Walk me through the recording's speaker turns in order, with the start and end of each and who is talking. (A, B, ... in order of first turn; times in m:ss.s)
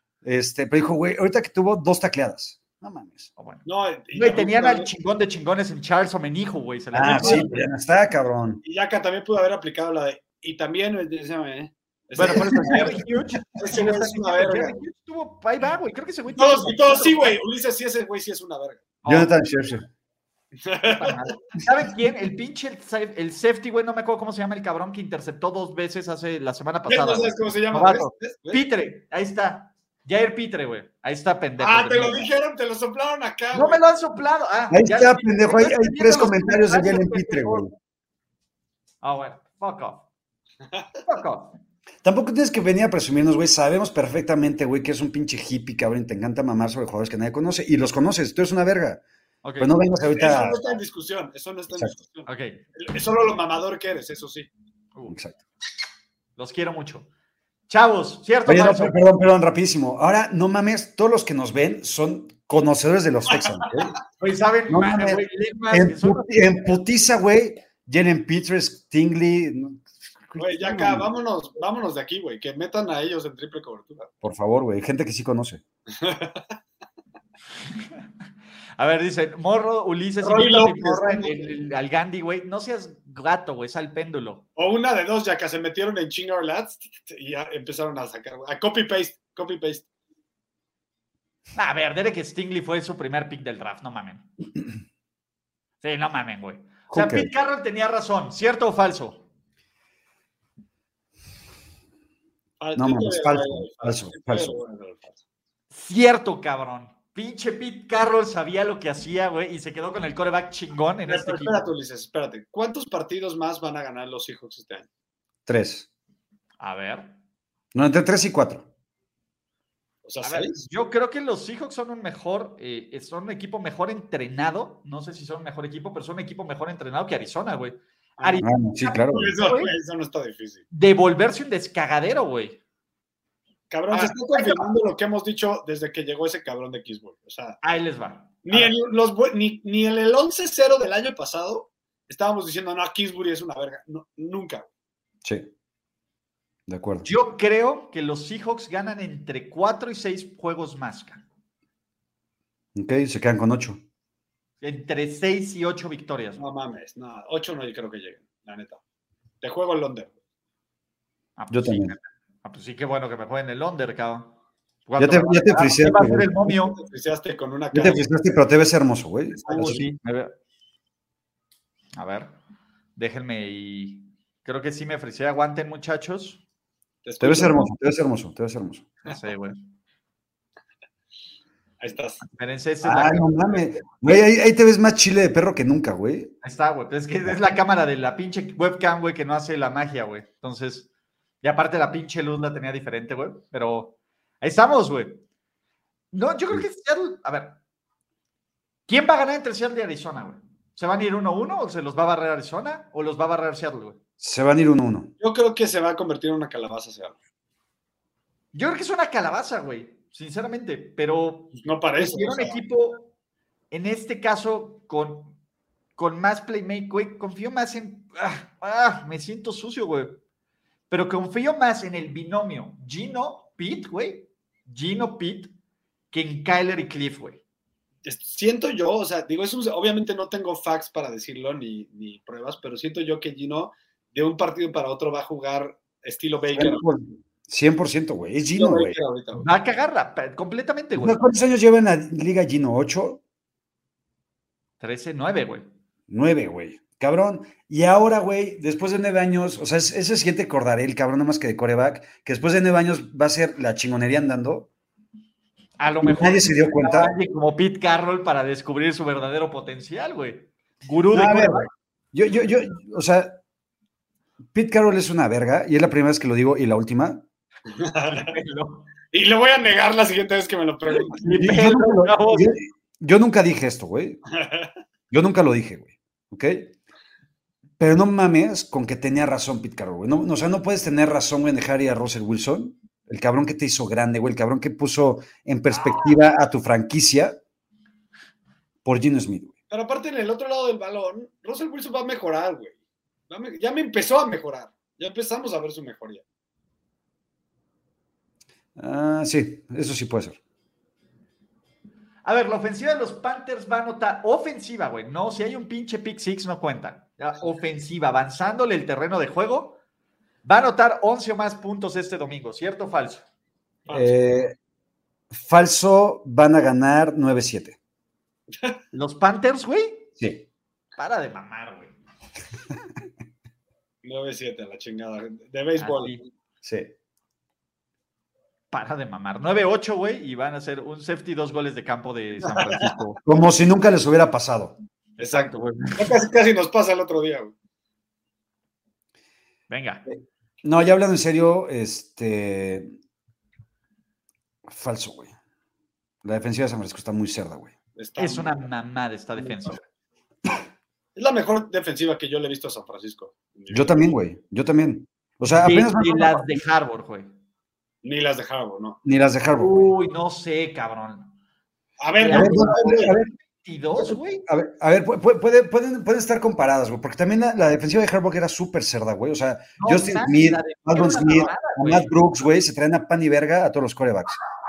0:00.2-0:03.3 A
0:03.4-0:07.6 B
0:03.6-0:04.9 C
0:06.9-0:08.6 A
0:07.2-0:07.6 C
0:08.6-0:14.8 C
0:12.2-0:17.4 B
0:12.2-0:12.9 A
0:16.3-0:18.8 C
0:19.0-0:19.3 B
0:19.0-0:19.8 A
0:20.6-0:21.3 C
0:20.8-0:32.3 B
0:26.9-0:28.6 C
0:31.6-0:33.8 C
0:33.5-0:37.6 B
0:34.7-0:37.7 A
0:39.0-0:40.1 B
0:41.0-0:41.6 B
0:42.0-0:49.0 A
0:49.4-0:49.7 B
0:49.6-0:50.6 A
0:50.1-0:54.5 C
0:52.2-0:52.6 B
0:55.1-0:55.4 A
0:56.4-0:57.1 B
0:57.7-0:59.0 B
0:58.4-1:04.0 A
1:03.3-1:03.8 C
1:04.2-1:06.7 B
1:04.7-1:11.1 A
1:10.4-1:14.1 C
1:14.2-1:15.6 A
1:16.0-1:16.5 C
1:18.8-1:24.4 B
1:20.2-1:21.5 C
1:24.6-1:29.8 C
1:31.5-1:34.3 B
1:35.8-1:39.2 B
1:36.9-1:37.3 A
1:42.6-1:45.2 C
1:42.8-1:44.6 A
1:45.7-1:51.7 B
1:51.1-1:54.9 C
1:55.4-1:55.9 A
1:56.6-1:57.1 B
1:57.7-1:58.7 A
2:00.0-2:00.6 C
2:00.2-2:09.7 B
2:08.4-2:09.3 A
2:09.1-2:10.6 C
2:10.7-2:12.6 B
2:13.7-2:17.6 C
2:13.9-2:14.7 B
2:17.6-2:18.7 B
2:18.4-2:24.7 C
2:25.2-2:25.5 A
2:26.7-2:27.1 A
2:27.0-2:31.2 B
2:32.7-2:33.8 A
2:34.6-2:36.4 B
2:36.4-2:38.8 C
2:39.4-2:40.1 C
2:41.4-2:46.8 B
2:41.5-2:41.9 A
2:45.0-2:46.4 A
2:46.6-2:48.1 C
2:47.7-2:49.8 A
2:49.4-2:49.8 C
2:49.5-2:50.3 B
2:51.9-2:52.3 B
2:53.0-2:56.4 B
2:57.0-2:57.6 C
2:57.2-2:58.9 A
2:59.0-2:59.6 B
3:01.8-3:02.2 C
3:02.2-3:03.7 B
3:02.8-3:06.3 A
3:06.4-3:10.9 B
3:11.4-3:15.2 B
3:16.1-3:17.6 B
3:18.9-3:24.0 B
3:24.2-3:25.1 A
3:25.2-3:27.2 C
3:28.5-3:33.1 B
3:31.6-3:32.6 C
3:33.7-3:35.3 B
3:36.0-3:40.2 B
3:40.9-3:45.5 B
3:46.1-3:47.4 B
3:48.0-3:56.8 C
3:56.5-3:59.0 A
3:58.6-3:59.5 C
3:59.3-4:01.2 B
4:01.0-4:03.2 A
4:04.8-4:05.7 B
4:06.1-4:14.7 A
4:15.8-4:21.7 B
4:16.0-4:17.1 A
4:21.1-4:23.4 A
4:24.5-4:27.2 A
4:27.8-4:28.3 C
4:28.1-4:28.9 B
4:29.1-4:31.4 C
4:30.9-4:32.5 B
4:31.3-4:34.2 A
4:34.3-4:34.7 C
4:35.1-4:36.7 A
4:37.8-4:47.4 A
4:48.8-4:49.5 A
4:49.7-4:52.7 C
4:53.3-4:56.2 C
4:58.8-5:00.4 A
5:02.2-5:09.8 B
5:10.4-5:13.2 B
5:13.8-5:14.2 C
5:13.9-5:14.6 A
5:15.3-5:17.8 A
5:18.9-5:20.1 B
5:21.0-5:21.9 B
5:24.0-5:26.2 C
5:25.8-5:26.2 B
5:26.6-5:26.9 A
5:28.7-5:33.2 B
5:32.4-5:32.9 C
5:33.2-5:34.8 A
5:35.2-5:36.2 B
5:35.2-5:37.5 C
5:39.7-5:40.0 B
5:40.1-5:43.0 A
5:44.7-5:45.3 A
5:46.2-5:47.7 A
5:48.0-5:48.5 C
5:48.2-5:49.8 B
5:51.2-5:54.0 C
5:53.7-5:56.6 A
5:55.6-5:57.3 B
5:58.0-5:59.0 C
5:59.0-5:59.9 A
5:59.5-6:01.3 B
6:02.0-6:03.1 C
6:02.2-6:04.4 B
6:02.3-6:03.3 A
6:03.9-6:14.4 A
6:09.8-6:12.1 B